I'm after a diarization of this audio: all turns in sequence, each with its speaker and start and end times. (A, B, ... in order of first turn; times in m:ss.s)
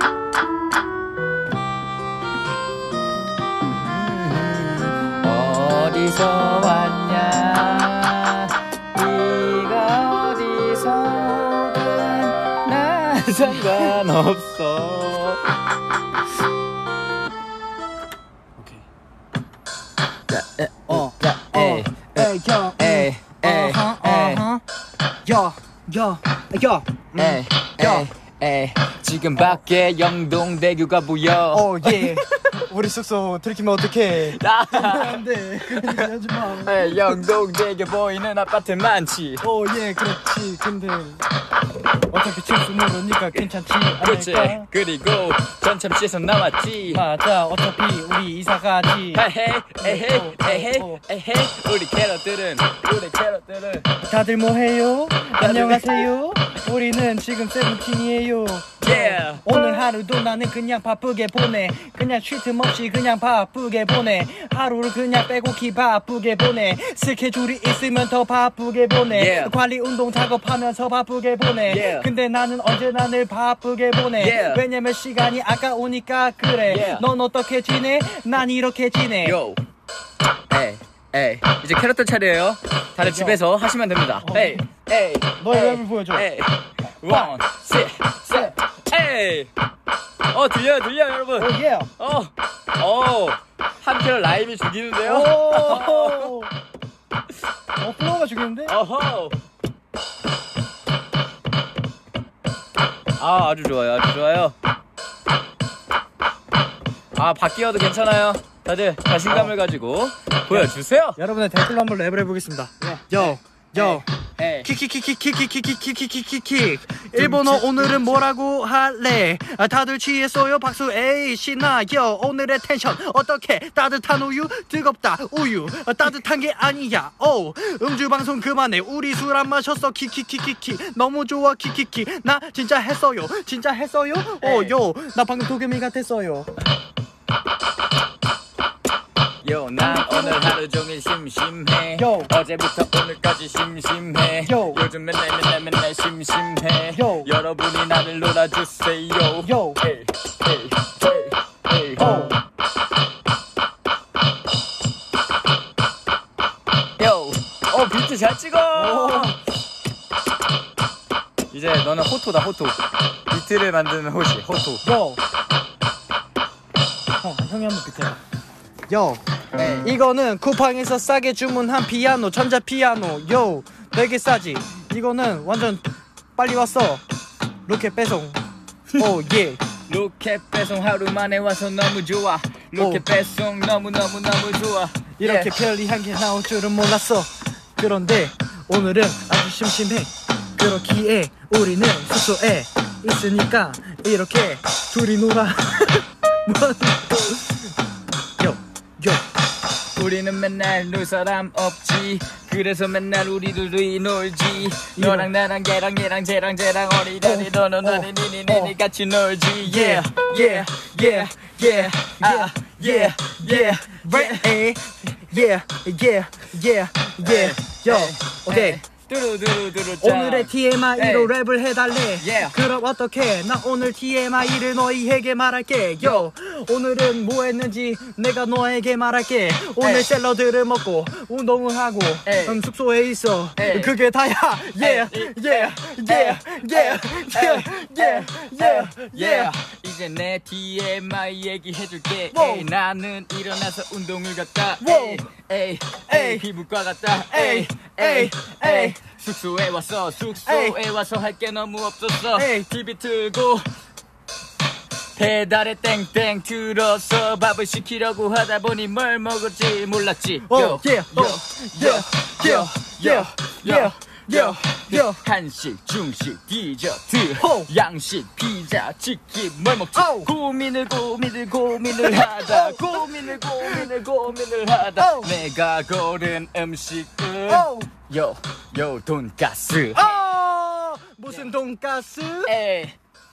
0:03.7-0:15.5 A
0:18.6-0:18.8 B
0:20.3-0:24.4 A
0:20.9-0:24.6 B
0:25.2-0:28.1 B
0:27.2-0:32.5 A
0:31.5-0:37.2 B
0:34.3-0:39.4 A
0:39.4-0:41.2 B
0:42.1-0:44.7 B
0:43.3-0:47.0 A
0:46.9-0:49.2 B
0:49.1-0:53.9 A
0:49.8-0:51.0 B
0:54.0-1:19.4 B
0:55.4-0:56.1 A
0:58.8-0:59.5 A
1:09.1-1:09.5 A
1:11.6-1:12.1 A
1:14.2-1:14.6 A
1:16.6-1:17.1 A
1:19.2-1:19.6 A
1:20.5-1:29.5 A
1:23.0-1:23.4 B
1:24.2-1:24.6 B
1:25.4-1:26.3 B
1:27.1-1:27.4 B
1:30.3-1:36.4 A
1:31.4-1:31.9 B
1:35.0-1:36.5 B
1:37.8-1:38.8 B
1:38.7-1:39.4 A
1:43.2-1:44.6 A
1:47.2-1:51.2 A
1:49.2-1:49.5 B
1:50.5-1:54.1 B
1:52.8-1:54.7 A
1:54.6-2:16.5 B
1:57.1-1:58.2 A
2:14.4-2:14.8 A
2:19.4-2:32.2 A
2:19.8-2:20.4 B
2:22.0-2:22.3 B
2:24.4-2:24.8 B
2:26.9-2:27.3 B
2:29.4-2:29.8 B
2:32.0-2:32.4 B
2:37.0-2:39.4 A
2:38.7-2:39.4 B
2:41.5-2:44.8 A
2:44.8-2:45.2 B
2:47.2-2:48.2 B
2:48.9-2:49.2 B
2:49.6-2:49.9 A
2:49.8-2:57.0 B
2:57.7-2:58.4 B
2:59.0-2:59.6 B
2:59.9-3:05.5 A
3:02.8-3:03.0 B
3:05.2-3:17.6 B
3:18.4-3:19.2 B
3:20.0-3:34.6 A
3:25.0-3:25.3 B
3:27.2-3:28.8 B
3:29.6-3:38.8 B
3:37.2-3:41.3 A
3:40.0-3:59.5 B
3:42.2-3:42.6 A
3:46.0-3:46.2 A
3:49.8-3:50.1 A
3:52.3-3:52.6 A
3:53.6-3:54.0 A
3:54.8-4:13.7 A
4:02.3-4:02.7 B
4:04.8-4:05.3 B
4:06.1-4:06.4 B
4:07.2-4:09.0 B
4:10.4-4:10.8 B
4:12.4-4:12.7 B
4:15.2-4:40.3 A
4:20.4-4:25.2 B
4:27.4-4:27.7 B
4:29.9-4:30.3 B
4:31.9-4:33.9 B
4:35.0-4:35.3 B
4:37.5-4:37.9 B
4:39.9-4:42.5 B
4:41.3-4:41.5 A
4:42.5-4:43.0 A